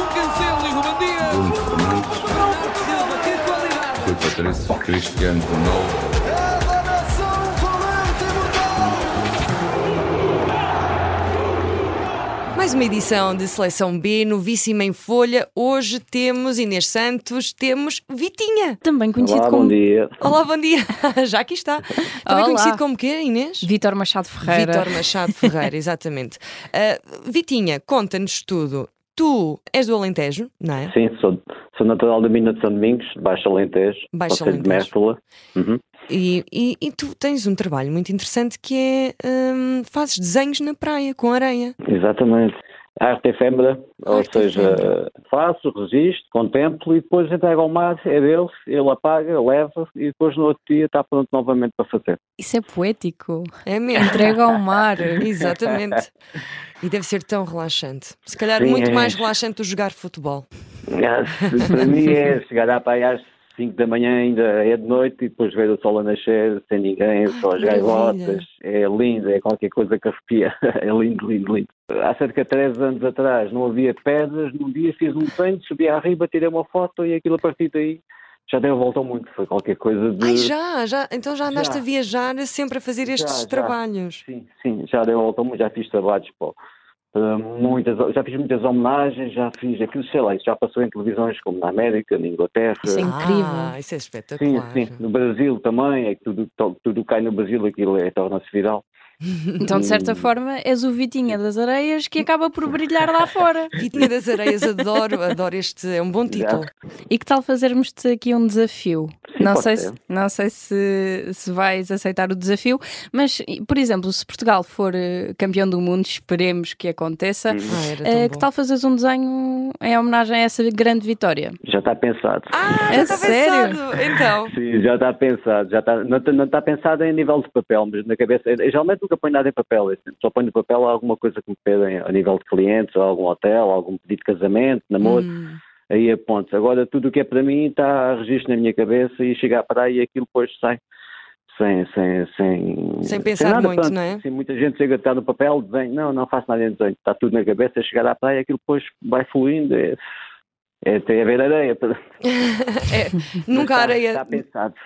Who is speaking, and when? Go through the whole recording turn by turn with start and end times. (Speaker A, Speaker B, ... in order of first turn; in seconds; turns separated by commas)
Speaker A: 1.1-2.3, Speaker A: 3.9-6.1, Speaker B: 12.5-18.8, Speaker C: 18.8-19.8, Speaker D: 19.2-20.2, Speaker B: 20.2-23.7, Speaker C: 22.2-22.8, Speaker C: 23.6-25.5, Speaker B: 24.4-30.9, Speaker D: 30.9-35.8, Speaker B: 34.1-34.9, Speaker B: 36.1-41.8, Speaker D: 41.8-52.2, Speaker B: 44.1-44.9, Speaker C: 52.4-55.2, Speaker B: 53.6-54.4, Speaker B: 55.2-56.1, Speaker B: 56.8-60.5, Speaker D: 58.6-59.2, Speaker D: 60.9-80.5, Speaker B: 67.3-68.4, Speaker B: 80.2-84.2, Speaker D: 81.5-81.8, Speaker D: 83.0-86.5, Speaker D: 87.1-93.1, Speaker C: 92.8-93.7, Speaker B: 93.0-95.0, Speaker D: 94.4-98.8, Speaker C: 99.6-103.7, Speaker D: 99.7-100.3, Speaker B: 103.8-106.7, Speaker D: 106.3-106.6, Speaker C: 107.1-121.6, Speaker D: 109.3-110.0, Speaker D: 117.5-117.8, Speaker B: 117.7-118.5, Speaker D: 121.6-123.3, Speaker B: 122.5-124.5, Speaker C: 122.9-123.8, Speaker D: 124.5-135.3, Speaker B: 135.0-135.6, Speaker D: 135.9-140.8, Speaker D: 141.5-150.0, Speaker B: 143.0-144.2, Speaker D: 150.8-152.0, Speaker B: 152.3-154.4, Speaker D: 153.5-154.7